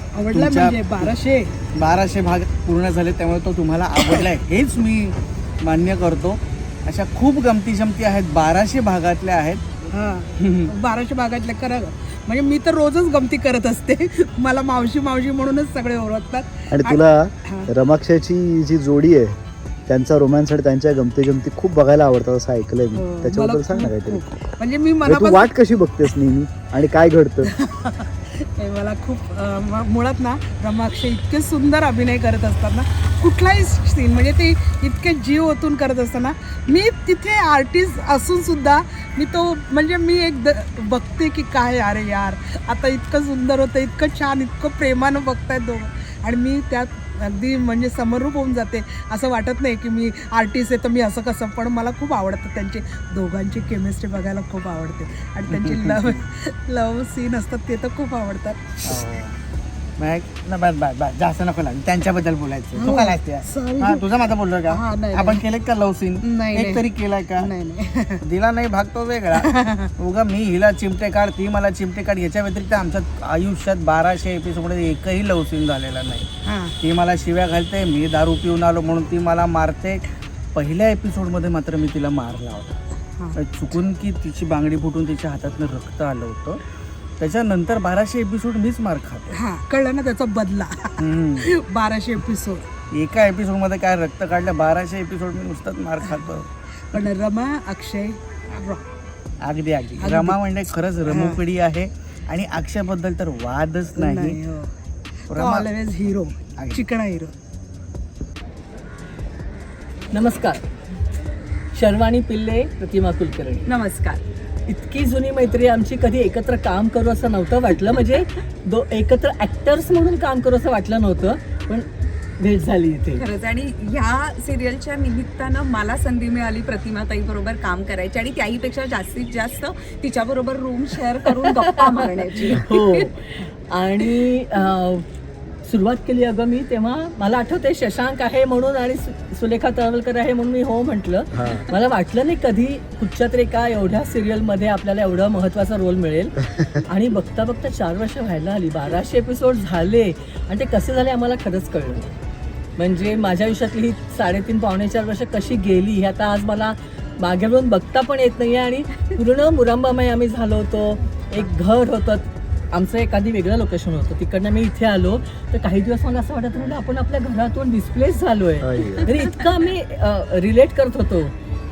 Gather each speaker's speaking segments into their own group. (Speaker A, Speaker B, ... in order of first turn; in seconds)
Speaker A: 0.1-1.5, 9.9-17.7, 22.9-25.5, 27.4-59.0, 62.8-64.1, 64.7-65.4, 66.2-68.2, 69.4-69.9, 76.5-76.8, 89.3-92.7, 96.9-98.9, 100.0-100.4, 101.1-101.4, 104.0-104.7, 105.3-107.3
Speaker B: 0.3-1.1, 1.8-9.6, 10.4-10.7, 55.5-56.2, 58.9-59.4, 60.0-67.5, 68.2-76.3, 76.8-82.8, 83.3-86.6, 87.2-89.3, 91.0-91.5, 92.9-97.0, 99.4-104.4, 105.3-105.7, 106.6-106.9
Speaker C: 16.7-24.2, 25.1-27.5, 141.3-141.7, 168.6-169.1
Speaker D: 110.1-110.6, 111.7-113.7, 114.7-121.9, 122.4-123.2, 132.4-135.1, 135.7-152.1, 152.8-171.3
Speaker E: 113.7-114.2, 123.2-133.1